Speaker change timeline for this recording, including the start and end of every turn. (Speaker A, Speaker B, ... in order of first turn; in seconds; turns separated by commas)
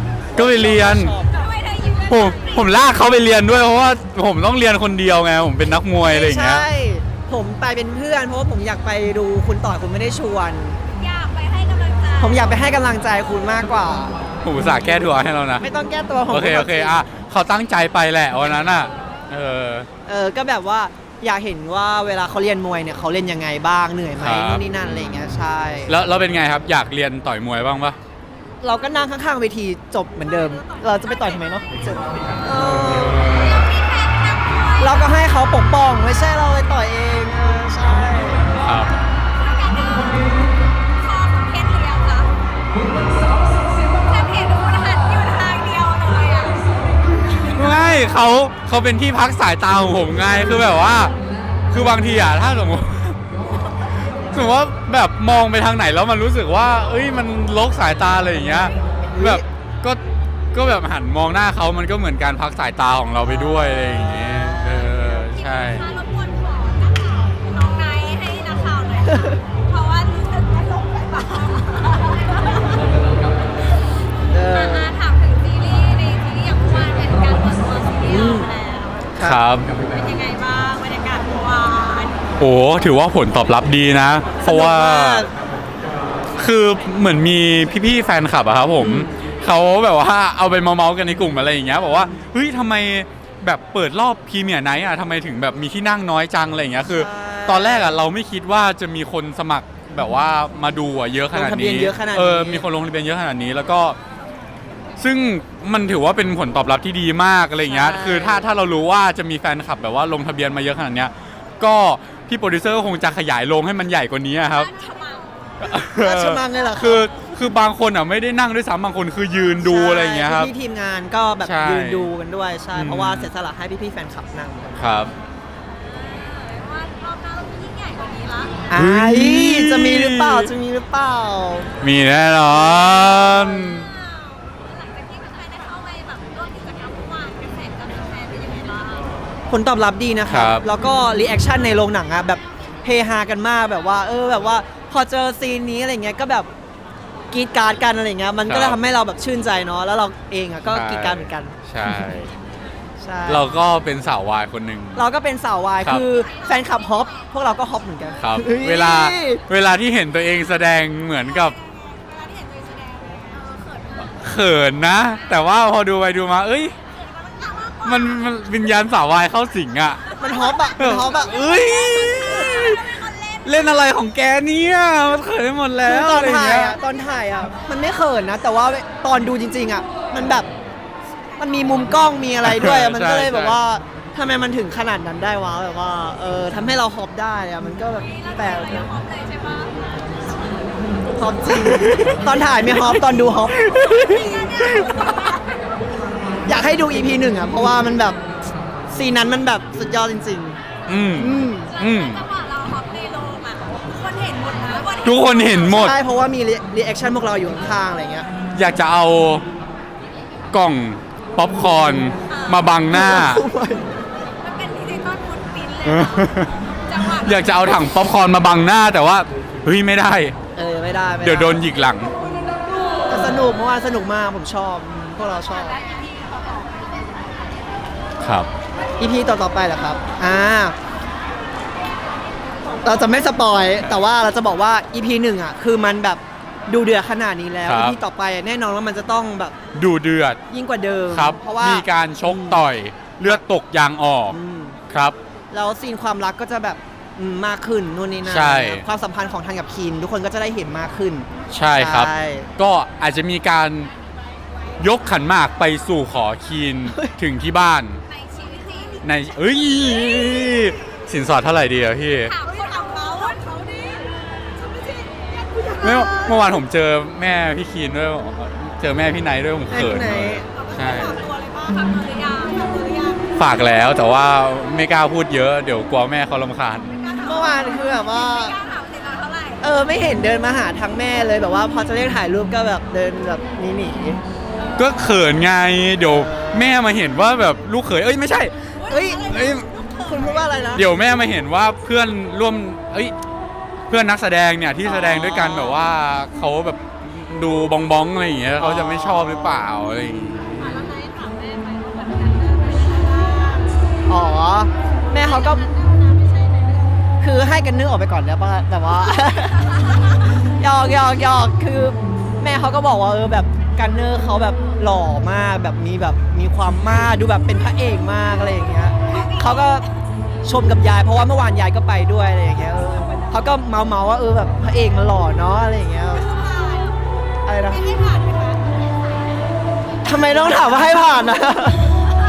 Speaker A: 0.3-1.1, Speaker B: 0.3-1.4, Speaker C: 1.3-2.8, Speaker A: 2.1-6.7, Speaker B: 6.0-10.8, Speaker C: 10.9-12.5, Speaker B: 12.2-14.1, Speaker A: 14.4-15.6, Speaker B: 15.6-17.0, Speaker A: 16.3-19.9, Speaker B: 20.1-26.0, Speaker A: 24.2-28.0, Speaker B: 28.6-33.3, Speaker C: 30.2-31.8, Speaker A: 32.9-33.7, Speaker C: 33.2-35.0, Speaker B: 34.8-38.5, Speaker A: 38.6-38.9, Speaker C: 39.3-40.4, Speaker C: 41.0-42.3, Speaker C: 43.9-46.6, Speaker A: 47.4-51.1, Speaker A: 51.7-53.2, Speaker A: 54.3-60.0, Speaker B: 59.1-59.4, Speaker A: 60.5-65.9, Speaker B: 63.2-65.1, Speaker C: 65.1-72.9, Speaker B: 69.1-69.4, Speaker B: 74.3-74.9, Speaker C: 74.5-79.1, Speaker B: 78.1-78.5, Speaker B: 79.1-79.4, Speaker A: 79.2-79.7, Speaker C: 79.8-82.3, Speaker A: 82.4-85.3, Speaker B: 84.4-85.3, Speaker A: 86.4-104.0, Speaker B: 96.9-98.0, Speaker B: 101.3-102.7, Speaker A: 105.0-114.7, Speaker B: 107.7-108.4, Speaker C: 114.5-115.5, Speaker A: 115.6-120.5, Speaker B: 115.8-117.1, Speaker B: 119.6-125.0, Speaker A: 121.4-122.1, Speaker A: 122.7-123.3, Speaker A: 124.8-125.1, Speaker C: 125.8-128.7, Speaker B: 128.7-131.7, Speaker A: 128.8-130.5, Speaker A: 131.8-133.9, Speaker C: 132.9-139.1, Speaker B: 139.5-146.5, Speaker A: 140.3-140.7, Speaker B: 147.3-151.6, Speaker A: 148.5-148.8, Speaker A: 150.7-152.3, Speaker B: 153.0-153.5, Speaker A: 153.3-155.0, Speaker B: 154.9-159.4, Speaker C: 156.2-157.3, Speaker A: 158.2-161.5, Speaker C: 161.2-164.2, Speaker A: 164.1-166.8, Speaker C: 166.9-168.5, Speaker A: 167.8-170.0, Speaker C: 170.1-173.9, Speaker B: 170.2-171.6, Speaker A: 170.8-176.8, Speaker B: 175.8-180.5, Speaker B: 181.4-188.9, Speaker A: 182.4-183.6, Speaker C: 188.0-191.0, Speaker B: 191.1-193.6, Speaker A: 191.5-193.0, Speaker A: 193.5-195.1, Speaker C: 193.7-195.7, Speaker B: 196.4-198.2, Speaker B: 198.9-200.6, Speaker A: 200.9-202.2, Speaker B: 201.2-201.7, Speaker C: 201.7-205.9, Speaker A: 205.0-206.0, Speaker B: 205.7-208.3, Speaker A: 208.5-209.4, Speaker A: 210.5-213.4, Speaker C: 212.3-212.7, Speaker B: 212.9-213.8, Speaker C: 214.4-216.3, Speaker A: 215.8-216.6, Speaker C: 216.8-217.5, Speaker A: 217.1-220.3, Speaker B: 220.5-221.6, Speaker A: 221.2-222.1, Speaker B: 223.1-225.8, Speaker C: 225.7-226.9, Speaker A: 228.2-228.5, Speaker B: 229.0-230.7, Speaker B: 232.8-239.6, Speaker A: 237.7-238.0, Speaker A: 239.7-240.4, Speaker B: 240.5-242.7, Speaker A: 241.1-244.4, Speaker B: 244.3-244.8, Speaker A: 244.9-245.2, Speaker B: 245.5-252.5, Speaker A: 248.2-248.8, Speaker A: 251.5-253.9, Speaker A: 254.8-258.0, Speaker C: 258.1-259.1, Speaker A: 259.0-262.3, Speaker C: 262.2-266.2, Speaker A: 265.8-271.2, Speaker B: 269.7-270.4, Speaker C: 270.5-273.2, Speaker A: 273.4-276.9, Speaker C: 277.0-279.6, Speaker B: 277.2-278.5, Speaker B: 279.6-284.2, Speaker A: 284.8-288.5, Speaker B: 286.0-286.7, Speaker C: 288.7-290.7, Speaker B: 288.9-289.2, Speaker A: 289.2-289.7, Speaker B: 290.0-290.8, Speaker A: 290.8-293.1, Speaker A: 293.9-300.8, Speaker B: 294.8-295.8, Speaker B: 298.6-299.5, Speaker C: 300.6-303.8, Speaker B: 304.1-305.6, Speaker C: 305.1-307.0, Speaker B: 307.2-309.8, Speaker B: 310.5-319.8, Speaker C: 319.1-319.9, Speaker B: 320.4-326.2, Speaker C: 326.1-327.0, Speaker B: 327.4-327.9, Speaker C: 327.6-328.8, Speaker B: 330.0-331.9